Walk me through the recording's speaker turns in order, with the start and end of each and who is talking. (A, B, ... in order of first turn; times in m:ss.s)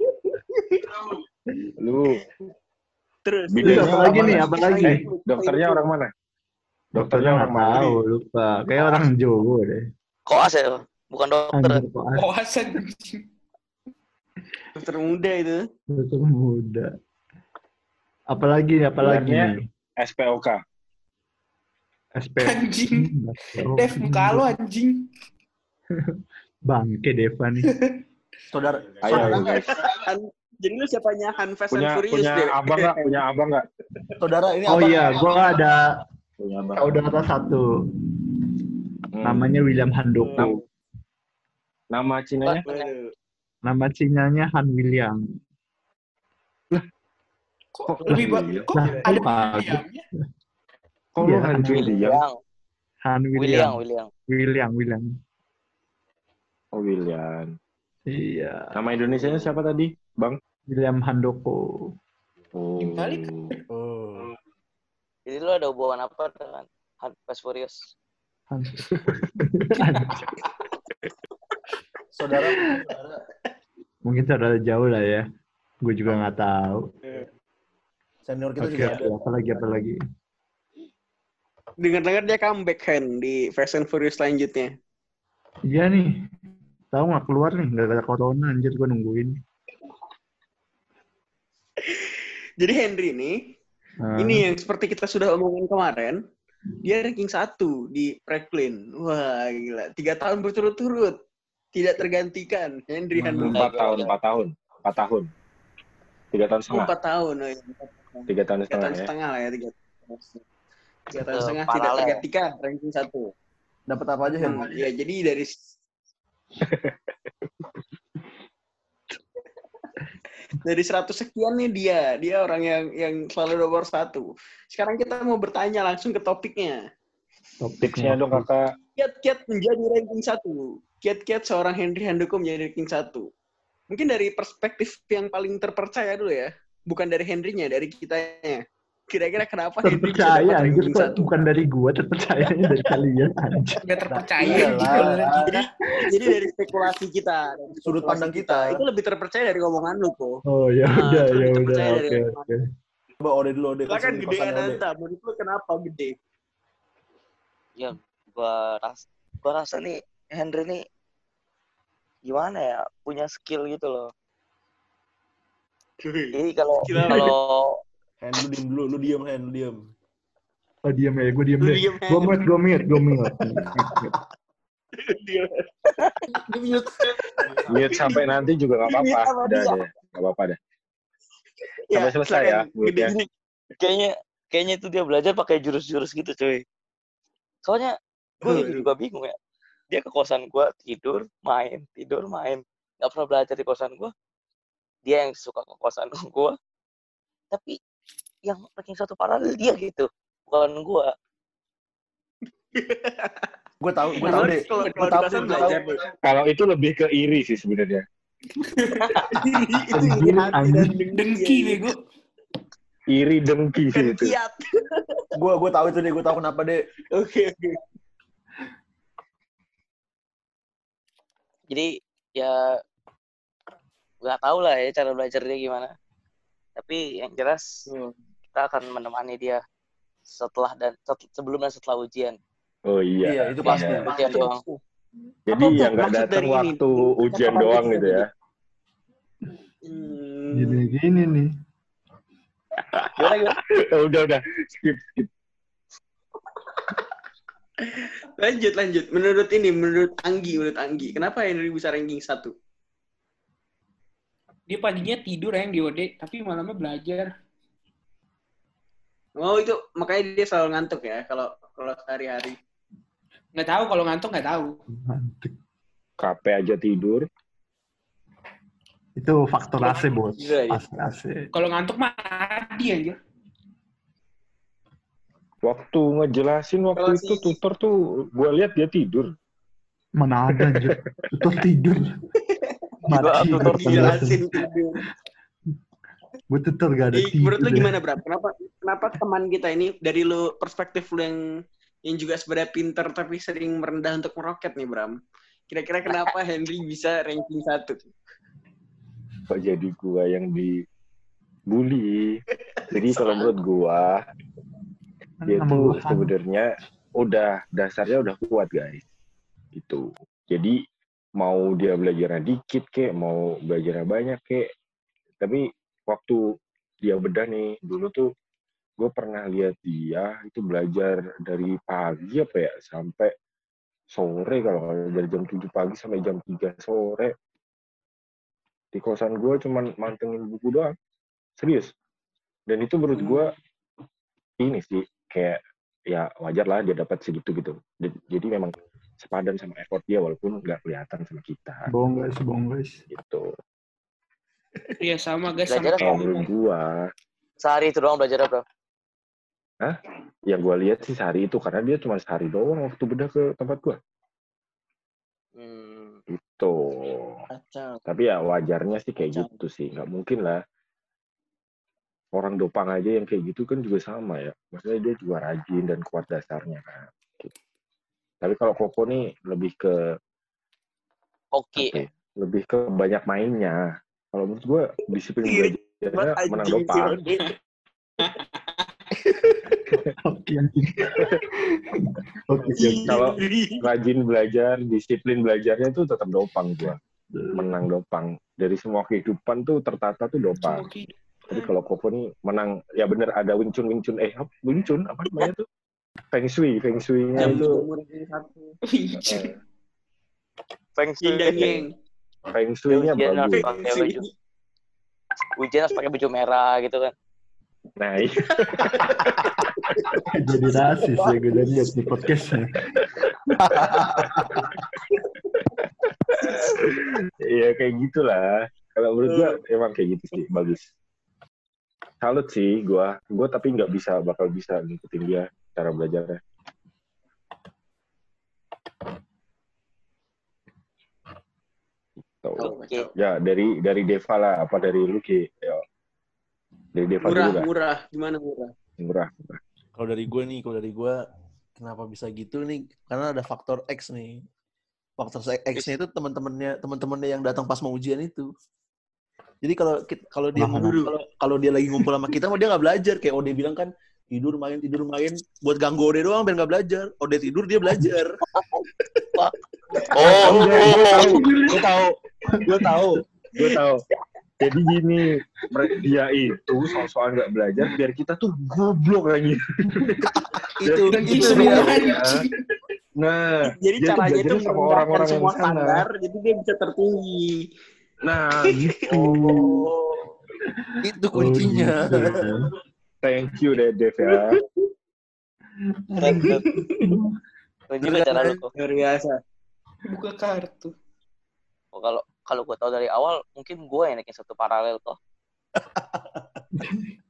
0:00.5-0:01.0 A
0:01.8-0:02.2 B
0:03.2-0:05.8 A
0:03.5-0:06.1 B
0:03.6-0:05.0 C
0:06.9-0:08.0 B
0:07.0-0:09.9 C
0:10.3-0:11.8 D
0:11.5-0:12.3 C
0:12.1-0:13.2 E
0:14.8-0:15.6 A
0:15.9-0:16.9 C
0:18.3-0:19.7 C
0:19.0-0:20.6 B
0:22.2-0:24.5 C
0:22.4-0:23.1 E
0:23.6-0:25.0 E
0:25.9-0:27.7 C
0:27.7-0:28.0 E
0:28.5-0:29.4 F
0:29.0-0:29.8 B
0:29.1-0:29.5 C
0:29.1-0:33.2 A
0:31.7-0:33.6 B
0:34.2-0:35.4 F
0:34.7-0:35.9 C
0:36.4-0:37.0 B
0:36.8-0:38.2 C
0:39.1-0:39.6 B
0:39.2-0:40.6 C
0:40.2-0:40.5 A
0:40.4-0:40.6 B
0:41.9-0:42.6 B
0:42.4-0:42.9 D
0:42.6-0:43.1 A
0:43.6-0:45.2 C
0:47.8-0:50.0 E
0:47.9-0:48.7 B
0:48.1-0:49.8 C
0:51.1-0:52.2 B
0:51.2-0:52.0 C
0:51.7-0:52.4 D
0:53.0-0:53.8 C
0:53.4-0:54.1 D
0:54.3-0:55.1 C
0:56.7-0:57.5 B
0:58.1-0:58.8 C
0:58.7-1:00.4 B
1:00.7-1:01.9 C
1:02.5-1:03.5 B
1:02.8-1:03.3 E
1:03.7-1:04.3 F
1:05.3-1:07.9 D
1:08.5-1:10.4 C
1:12.1-1:13.2 F
1:12.4-1:12.8 C
1:14.0-1:15.2 C
1:15.8-1:16.9 C
1:18.2-1:19.2 F
1:18.6-1:20.0 C
1:21.8-1:24.7 A
1:25.7-1:26.2 C
1:26.9-1:29.4 C
1:31.8-1:33.3 A
1:34.0-1:34.4 C
1:34.2-1:36.2 A
1:36.8-1:41.1 A
1:41.8-1:44.1 A
1:43.2-1:43.6 C
1:43.4-1:45.3 B
1:46.3-1:46.9 B
1:46.7-1:50.4 A
1:48.3-1:49.1 B
1:51.1-1:53.3 A
1:51.1-1:52.2 D
1:53.9-1:54.8 F
1:54.4-1:55.5 A
1:56.6-1:56.9 B
2:00.5-2:06.8 A
2:07.6-2:08.4 C
2:07.8-2:08.7 B
2:09.0-2:13.3 A
2:13.9-2:18.6 A
2:19.1-2:21.3 A
2:19.8-2:23.8 C
2:23.8-2:25.6 E
2:24.1-2:25.4 F
2:24.5-2:24.8 C
2:24.5-2:24.7 A
2:25.4-2:32.5 A
2:25.9-2:26.3 C
2:27.8-2:28.8 F
2:30.5-2:32.6 C
2:33.2-2:34.8 F
2:33.9-2:36.1 A
2:37.8-2:40.8 D
2:42.3-2:44.1 D
2:46.0-2:47.3 A
2:46.3-2:47.8 D
2:46.9-2:47.2 C
2:48.2-2:49.9 F
2:50.9-2:54.1 C
2:51.6-2:52.4 A
2:55.0-2:56.2 A
2:56.4-2:56.9 E
2:57.7-3:00.6 B
2:57.8-2:58.3 A
2:58.8-2:59.8 A
3:01.9-3:03.2 A
3:01.9-3:03.1 B
3:03.8-3:06.6 D
3:07.6-3:09.4 D
3:08.4-3:08.8 A
3:09.9-3:14.1 D
3:15.0-3:16.6 D
3:17.5-3:17.8 D
3:18.4-3:21.1 D
3:22.7-3:23.5 A
3:23.8-3:25.9 F
3:24.2-3:26.0 A
3:26.2-3:28.0 B
3:28.7-3:29.8 E
3:29.1-3:31.8 A
3:29.9-3:30.9 C
3:31.1-3:32.0 E
3:33.1-3:34.3 B
3:33.9-3:35.3 A
3:35.3-3:36.8 F
3:37.1-3:37.8 A
3:41.7-3:42.6 D
3:44.2-3:45.9 D
3:46.8-3:47.7 D
3:48.5-3:49.6 D
3:50.3-3:52.4 D
3:52.9-3:54.1 B
3:53.2-3:54.1 F
3:53.6-3:54.6 D
3:54.0-3:54.8 A
3:55.5-3:58.2 B
3:55.5-3:58.2 A
3:59.8-4:00.9 A
4:00.5-4:01.5 C
4:02.8-4:05.3 B
4:03.2-4:03.6 D
4:07.8-4:12.5 A
4:14.7-4:17.3 E
4:19.4-4:22.6 A
4:23.5-4:24.8 E
4:25.0-4:25.5 C
4:26.2-4:27.2 B
4:29.2-4:31.5 C
4:29.8-4:30.8 A
4:31.5-4:33.2 E
4:35.6-4:39.3 B
4:37.0-4:37.6 A
4:40.2-4:42.0 C
4:40.6-4:41.1 B
4:42.5-4:42.8 A
4:43.0-4:44.6 C
4:43.1-4:44.3 D
4:43.4-4:45.0 A
4:46.5-4:47.9 C
4:47.1-4:51.4 A
4:52.1-4:55.2 A
4:55.7-4:58.0 A
4:56.1-4:56.3 D
4:59.5-5:00.8 B
5:01.7-5:04.2 B
5:05.4-5:06.3 C
5:05.4-5:09.0 B
5:09.7-5:10.7 B
5:11.4-5:14.7 B
5:15.4-5:16.4 B
5:17.0-5:18.3 B
5:19.0-5:23.3 B
5:24.1-5:27.3 B
5:28.9-5:30.9 B
5:31.6-5:31.9 B
5:32.7-5:33.5 B
5:33.2-5:33.5 A
5:34.6-5:41.9 B
5:41.9-5:43.0 C
5:43.1-5:43.5 B
5:45.0-5:46.5 E
5:45.7-5:46.2 D
5:46.0-5:47.0 B
5:47.6-5:48.6 D
5:50.5-5:54.0 B
5:55.6-5:56.2 D
5:56.3-5:57.4 B
5:57.6-5:58.0 A
5:58.0-6:00.6 B
6:02.3-6:07.5 B
6:08.4-6:10.0 B
6:11.5-6:12.0 D
6:11.8-6:17.2 B
6:15.4-6:17.5 A
6:20.2-6:23.2 C
6:22.7-6:27.0 B
6:22.7-6:23.8 A
6:27.4-6:27.8 C
6:27.5-6:30.9 B
6:30.6-6:31.7 E
6:31.5-6:35.6 B
6:36.3-6:37.8 B
6:37.4-6:38.8 A
6:37.4-6:37.6 E
6:38.8-6:39.5 E
6:39.1-6:39.5 B
6:41.0-6:41.8 D
6:41.2-6:41.9 A
6:42.5-6:43.6 B
6:42.9-6:44.2 D
6:43.6-6:44.2 A
6:45.6-6:47.1 D
6:48.0-6:50.0 B
6:49.8-6:51.9 A
6:50.3-6:52.8 C
6:52.9-6:53.3 B
6:53.6-6:54.7 F
6:53.8-6:54.4 B
6:56.3-6:56.9 A
6:56.4-7:00.9 B
6:59.2-6:59.5 A
7:02.2-7:06.4 B
7:12.4-7:15.8 B
7:12.6-7:13.1 D
7:12.6-7:13.1 A
7:16.9-7:17.7 B
7:17.2-7:18.7 A
7:19.0-7:19.6 B
7:20.0-7:21.1 F
7:21.8-7:24.4 F
7:25.2-7:28.5 F
7:29.6-7:38.4 F
7:30.6-7:31.1 C
7:40.0-7:41.1 F
7:40.1-7:41.4 D
7:40.2-7:44.0 B
7:42.5-7:43.1 C
7:44.6-7:50.3 B
7:50.2-7:52.0 F
7:50.8-7:52.4 B
7:51.1-7:52.4 E
7:53.2-7:56.0 B
7:53.7-7:57.6 A
7:58.2-7:59.9 B
7:58.7-7:59.8 A
8:00.6-8:02.7 C
8:01.0-8:02.5 F
8:03.2-8:04.6 B
8:04.3-8:04.6 A
8:05.8-8:07.4 C
8:06.2-8:06.6 D
8:06.2-8:07.1 A
8:07.9-8:08.7 D
8:08.0-8:08.6 F
8:08.7-8:09.3 A
8:10.1-8:10.9 E
8:11.9-8:15.2 D
8:15.8-8:16.4 F
8:16.8-8:17.1 C